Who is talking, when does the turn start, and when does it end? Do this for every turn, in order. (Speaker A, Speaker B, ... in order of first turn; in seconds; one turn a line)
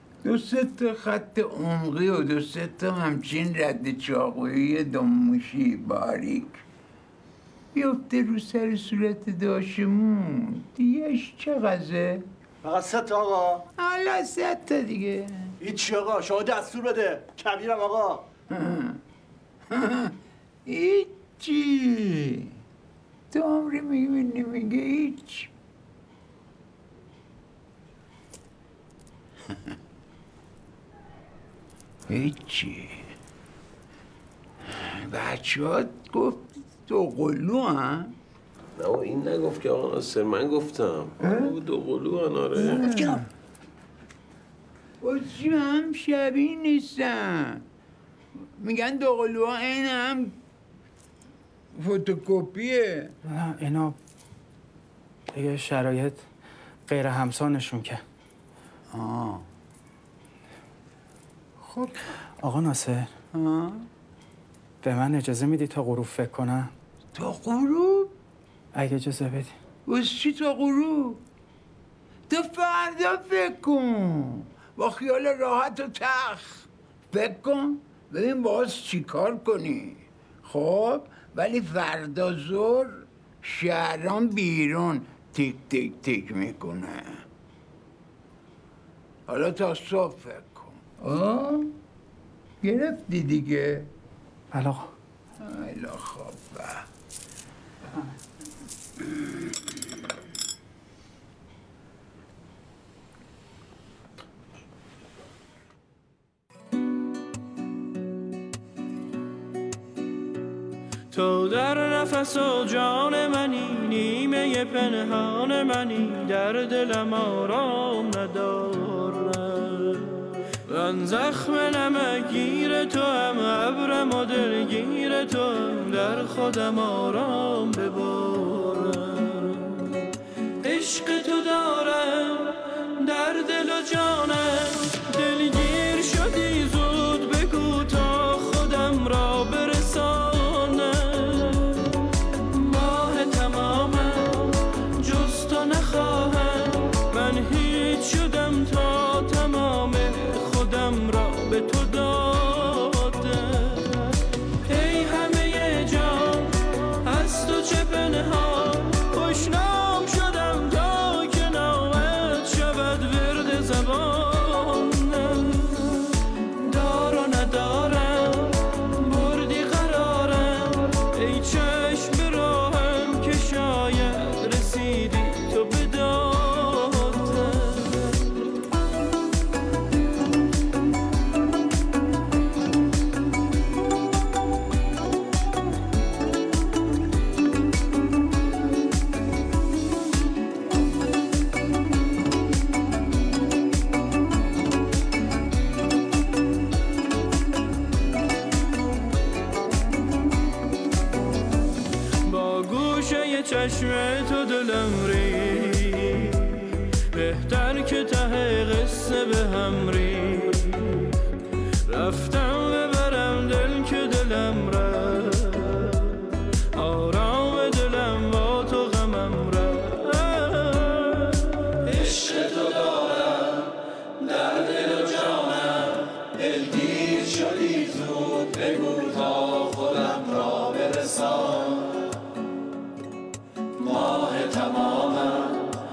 Speaker A: 0.2-6.6
Speaker A: 7.7-12.3
Speaker B: 12.6-13.3
Speaker A: 13.8-15.6
Speaker B: 15.7-18.1
Speaker A: 18.5-19.0
Speaker A: 19.7-20.1
Speaker A: 20.7-22.5
Speaker A: 23.3-25.5
Speaker A: 32.1-33.0
Speaker A: 34.7-38.1
Speaker C: 38.8-42.9
Speaker A: 41.2-41.5
Speaker A: 42.6-43.2
Speaker A: 45.0-47.6
Speaker A: 48.6-50.4
Speaker A: 51.7-53.1
Speaker D: 53.2-54.0
Speaker D: 55.3-56.2
Speaker D: 56.9-58.0
Speaker A: 58.9-59.5
Speaker A: 61.6-62.0
Speaker D: 62.4-63.1
Speaker A: 63.3-63.9
Speaker D: 64.8-66.7
Speaker A: 67.2-68.1
Speaker D: 68.7-69.5
Speaker A: 69.9-71.2
Speaker A: 72.3-87.2
Speaker A: 89.3-91.7
Speaker A: 92.6-93.9
Speaker D: 94.5-94.9
Speaker A: 95.4-96.9
Speaker A: 99.0-99.3
Speaker E: 111.1-130.0
Speaker E: 130.7-141.9
Speaker E: 142.5-166.2
Speaker E: 166.7-178.3
Speaker E: 202.3-211.1
Speaker E: 211.9-223.6
Speaker E: 224.2-231.5
Speaker E: 233.8-235.6